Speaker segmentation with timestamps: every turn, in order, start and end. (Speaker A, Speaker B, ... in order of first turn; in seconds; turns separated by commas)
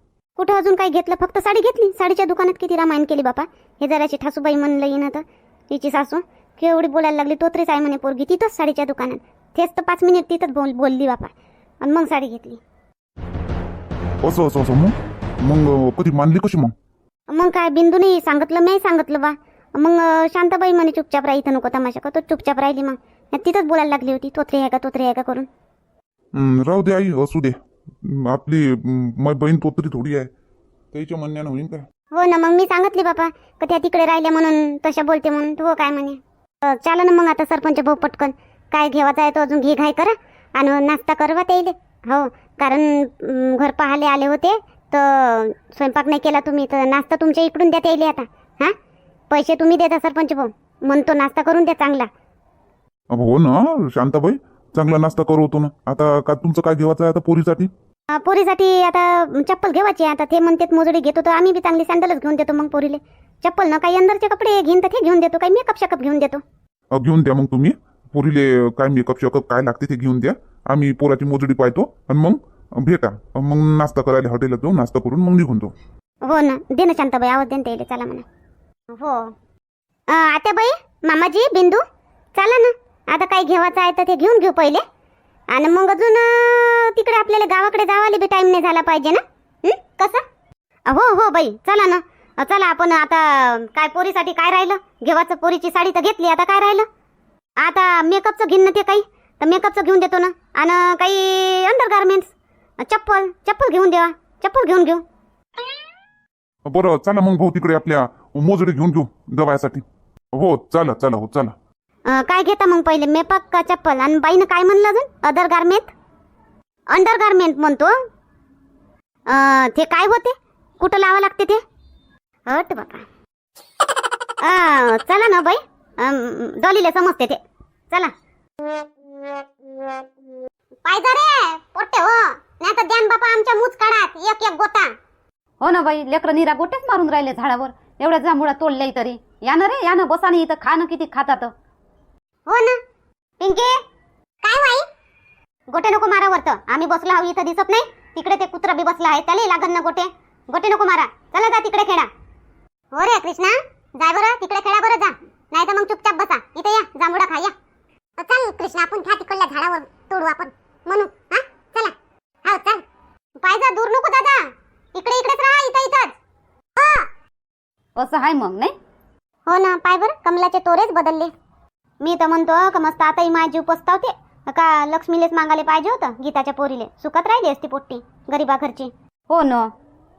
Speaker A: 0.4-12.6, Speaker B: 14.2-16.7, Speaker A: 17.3-25.5, Speaker B: 26.3-30.3, Speaker B: 30.9-31.9, Speaker A: 32.1-48.7, Speaker A: 49.3-52.1, Speaker B: 53.1-57.7, Speaker A: 58.1-66.4, Speaker B: 66.9-75.7, Speaker A: 76.2-78.2, Speaker A: 79.0-79.3, Speaker A: 80.1-81.8, Speaker A: 82.3-84.8, Speaker A: 85.5-90.2, Speaker A: 90.9-96.9, Speaker A: 97.6-105.0, Speaker B: 106.7-111.5, Speaker A: 112.1-115.9, Speaker A: 116.9-118.0, Speaker A: 119.3-121.6, Speaker A: 122.5-123.1, Speaker A: 124.4-127.4, Speaker A: 130.8-134.9, Speaker C: 135.6-141.5, Speaker A: 142.5-142.8, Speaker A: 143.4-143.8, Speaker A: 144.4-144.9, Speaker A: 145.7-152.1, Speaker A: 152.9-157.5, Speaker A: 158.2-162.8, Speaker A: 163.4-166.2, Speaker A: 166.8-167.1, Speaker C: 168.0-168.7, Speaker A: 169.5-171.3, Speaker A: 172.0-178.9, Speaker C: 179.3-179.7